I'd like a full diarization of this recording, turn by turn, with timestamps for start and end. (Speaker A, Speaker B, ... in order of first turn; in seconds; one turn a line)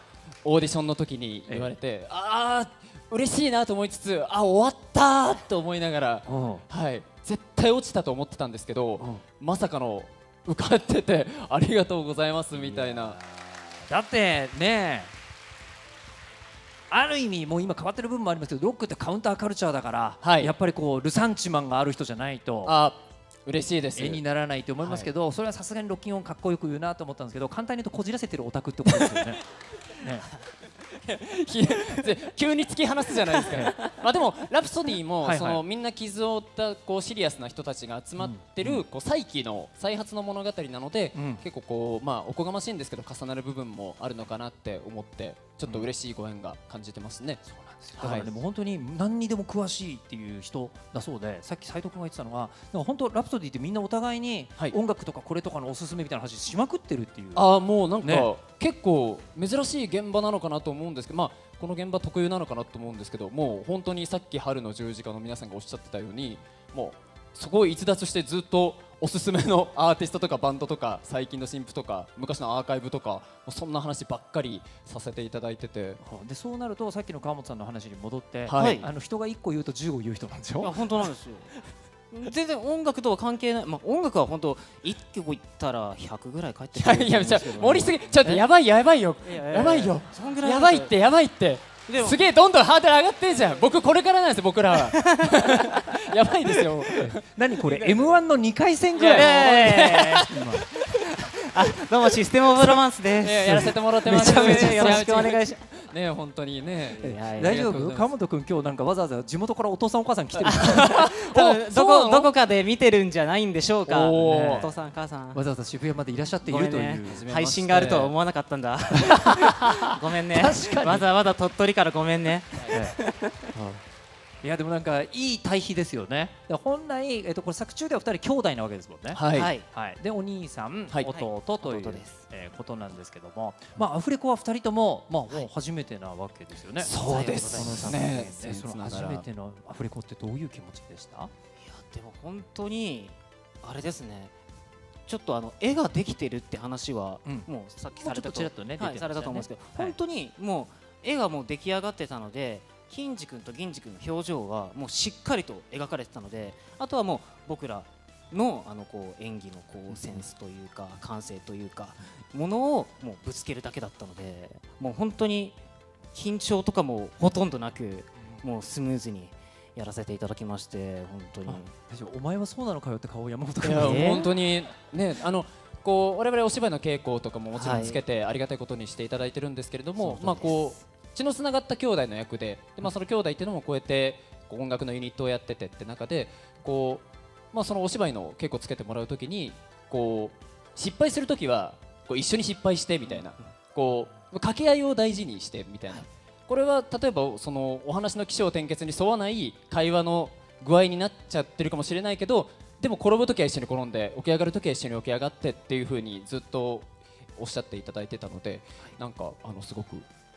Speaker A: 0.5-13.2
Speaker B: 1.5-1.7
Speaker B: 6.3-6.6
Speaker B: 12.6-15.1
Speaker B: 16.9-22.8
Speaker A: 20.2-20.5
Speaker A: 22.6-24.2
Speaker B: 24.0-29.4
Speaker A: 24.8-25.1
Speaker B: 29.9-30.3
Speaker A: 30.9-47.4
Speaker B: 35.2-35.6
Speaker B: 38.2-38.8
Speaker B: 41.1-41.4
Speaker B: 47.5-57.5
Speaker A: 48.0-48.3
Speaker A: 57.3-76.0
Speaker B: 58.0-58.3
Speaker B: 76.0-80.8
Speaker A: 78.5-78.8
Speaker C: 78.5-78.9
Speaker C: 80.6-81.5
Speaker C: 82.1-88.0
Speaker A: 86.8-97.2
Speaker C: 89.2-90.9
Speaker C: 91.9-92.2
Speaker C: 94.9-95.3
Speaker B: 96.7-100.6
Speaker C: 97.7-98.1
Speaker A: 99.0-100.4
Speaker C: 99.1-105.6
Speaker A: 103.2-108.1
Speaker B: 103.5-105.1
Speaker C: 107.0-107.6
Speaker B: 107.0-111.0
Speaker C: 110.4-115.4
Speaker A: 110.7-112.3
Speaker A: 113.9-114.7
Speaker B: 114.2-114.7
Speaker B: 115.3-117.4
Speaker C: 116.4-123.5
Speaker A: 117.0-118.1
Speaker A: 119.5-121.0
Speaker B: 120.4-121.0
Speaker B: 124.4-141.3
Speaker A: 129.1-129.5
Speaker C: 129.3-129.7
Speaker C: 131.1-132.2
Speaker A: 136.8-139.2
Speaker C: 137.0-137.9
Speaker C: 141.6-144.3
Speaker C: 145.1-165.6
Speaker B: 147.2-150.0
Speaker C: 166.1-171.7
Speaker B: 171.5-174.2
Speaker A: 173.6-210.1
Speaker C: 173.8-174.3
Speaker C: 177.5-178.0
Speaker C: 180.0-180.7